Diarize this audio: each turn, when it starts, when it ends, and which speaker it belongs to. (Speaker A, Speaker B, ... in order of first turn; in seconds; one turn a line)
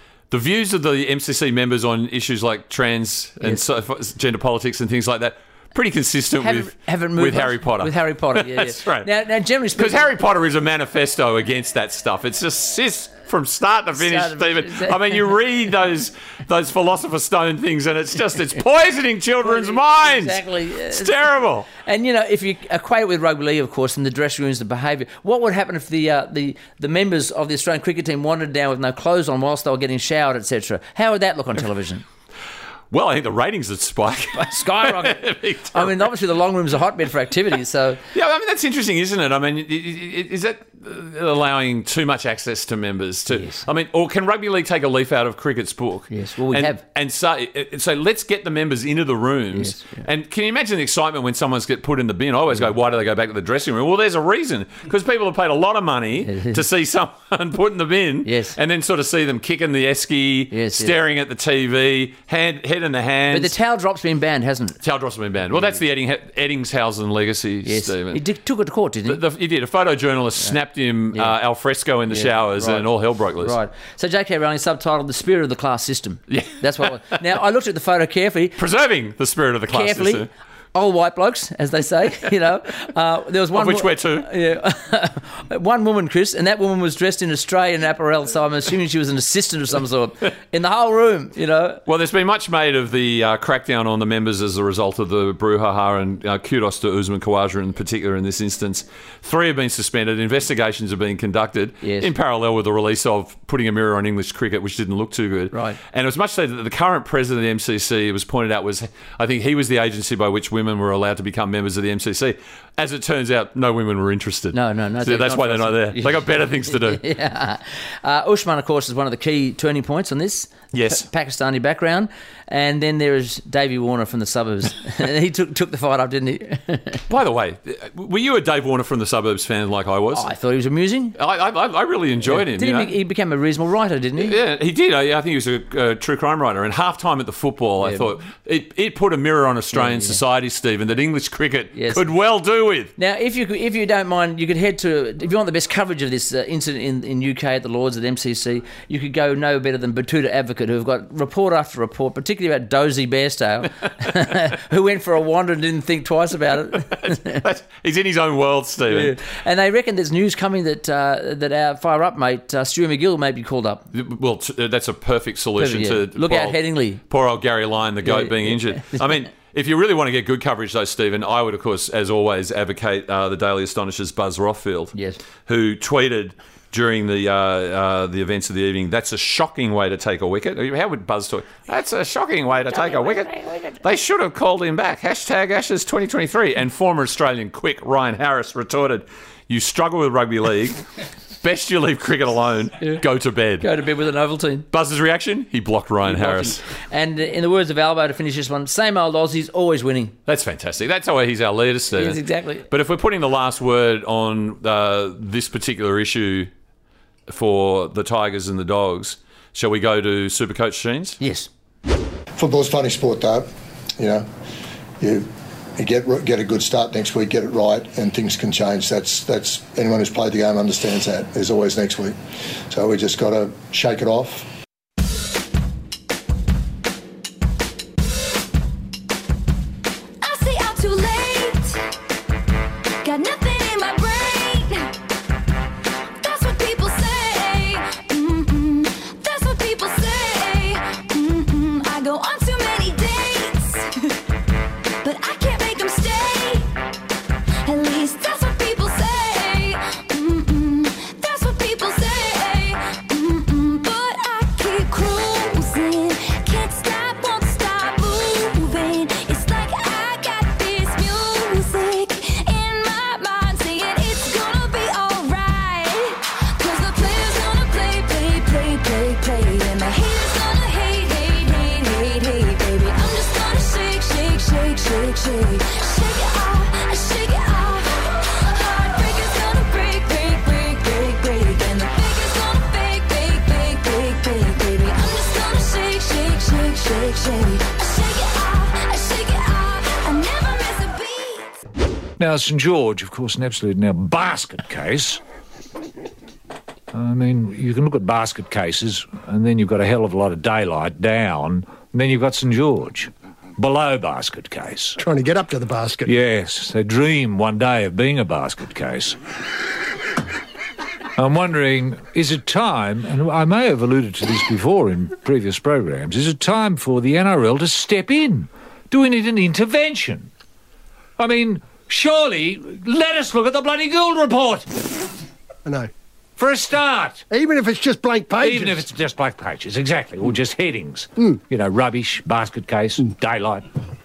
Speaker A: 0.3-9.1
Speaker B: 6.4-10.1
Speaker A: 9.8-21.7
Speaker B: 14.0-15.2
Speaker B: 19.4-32.0
Speaker A: 32.9-36.0
Speaker B: 34.4-38.0
Speaker A: 38.1-63.5
Speaker B: 43.3-43.6
Speaker B: 46.1-46.8
Speaker B: 49.5-50.0
Speaker B: 56.2-56.6
Speaker B: 58.2-58.5
Speaker B: 60.5-60.9
Speaker B: 63.3-64.8
Speaker A: 64.8-68.2
Speaker B: 67.7-69.2
Speaker A: 69.1-73.6
Speaker B: 72.1-78.6
Speaker A: 76.3-76.9
Speaker A: 78.6-80.3
Speaker B: 79.7-91.8
Speaker A: 83.5-84.3
Speaker A: 91.9-117.0
Speaker B: 101.8-102.1
Speaker B: 105.5-105.8
Speaker B: 114.5-127.0
Speaker A: 120.7-121.1
Speaker A: 127.1-130.3
Speaker B: 130.1-131.2
Speaker A: 131.2-132.9
Speaker B: 132.3-134.4
Speaker A: 134.2-142.9
Speaker B: 139.7-140.2
Speaker B: 141.8-142.0
Speaker B: 143.0-157.4
Speaker A: 157.0-159.2
Speaker B: 158.9-163.9
Speaker A: 163.9-174.9
Speaker B: 165.6-167.0
Speaker B: 168.1-169.0
Speaker B: 174.9-175.2
Speaker A: 175.5-190.8
Speaker B: 182.7-183.7
Speaker A: 191.4-193.7
Speaker B: 193.6-194.7
Speaker A: 194.7-196.6
Speaker B: 196.1-200.2
Speaker A: 200.3-206.5
Speaker B: 201.9-202.7
Speaker A: 207.3-211.2
Speaker B: 211.2-211.5
Speaker C: 212.4-213.5
Speaker C: 214.0-214.3
Speaker C: 215.0-222.2
Speaker C: 222.7-224.5
Speaker D: 230.2-231.8
Speaker D: 233.0-234.9
Speaker D: 236.2-244.2
Speaker D: 245.0-246.7
Speaker D: 247.7-291.6
Speaker E: 292.2-295.2
Speaker E: 296.9-305.0
Speaker F: 305.0-306.1
Speaker E: 306.1-309.2
Speaker E: 311.2-320.3
Speaker E: 321.2-325.0
Speaker E: 326.4-327.2
Speaker F: 327.3-328.8
Speaker E: 328.4-333.7